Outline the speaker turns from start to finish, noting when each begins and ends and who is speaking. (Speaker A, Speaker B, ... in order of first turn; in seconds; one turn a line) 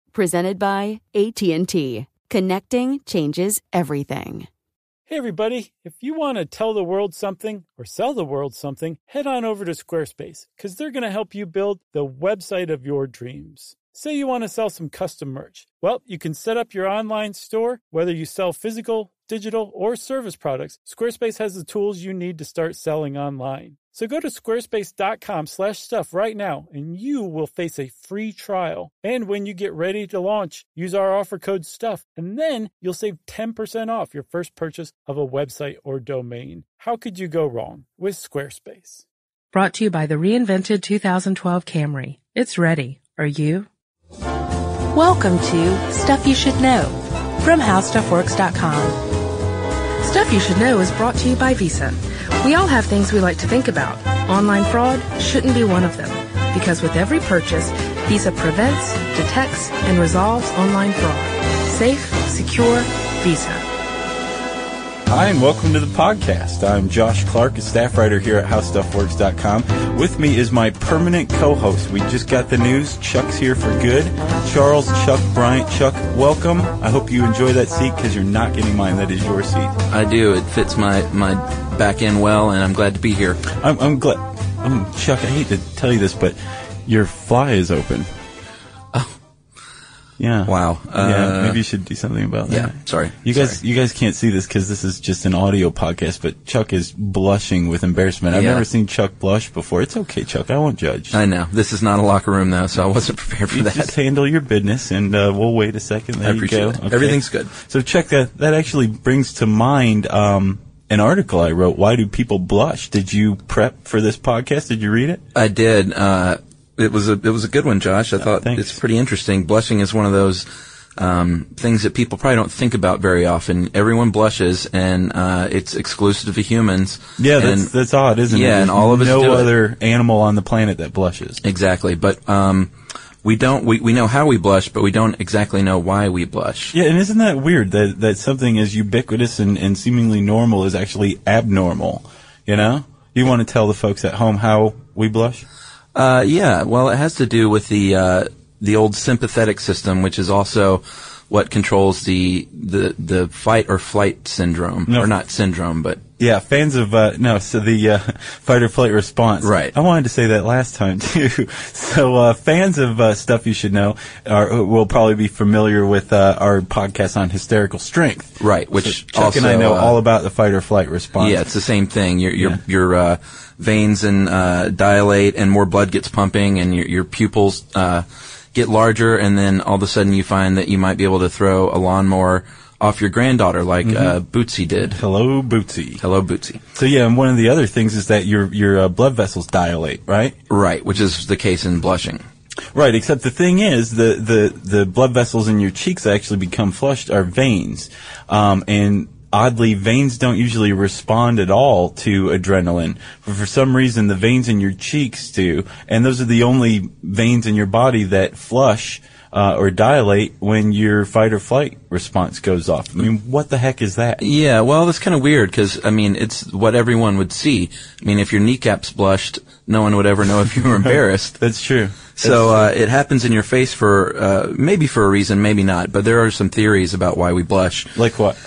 Speaker A: 0.1-4.5
Speaker B: 5.1-39.0
Speaker C: 39.5-43.7
Speaker C: 44.9-49.0
Speaker C: 50.0-63.6
Speaker D: 65.1-79.8
Speaker E: 79.9-83.4
Speaker D: 83.5-88.1
Speaker D: 90.2-101.2
Speaker E: 90.5-91.6
Speaker E: 92.5-93.6
Speaker E: 98.3-98.7
Speaker E: 101.1-104.0
Speaker D: 103.5-115.2
Speaker E: 106.2-107.5
Speaker E: 115.3-120.5
Speaker D: 118.3-118.8
Speaker E: 121.0-127.7
Speaker D: 127.2-131.4
Speaker E: 128.3-129.5
Speaker E: 131.4-132.7
Speaker E: 133.2-136.7
Speaker D: 136.7-145.4
Speaker E: 145.9-156.0
Speaker D: 154.9-155.1
Speaker D: 156.2-171.4
Speaker E: 159.4-159.7
Speaker E: 168.4-170.0
Speaker E: 171.2-185.0
Speaker D: 183.8-184.2
Speaker D: 184.8-186.0
Speaker E: 186.0-186.6
Speaker D: 186.7-190.3
Speaker E: 190.5-192.2
Speaker D: 192.7-214.2
Speaker E: 214.2-221.4
Speaker D: 220.9-222.7
Speaker E: 222.1-227.9
Speaker D: 227.9-228.4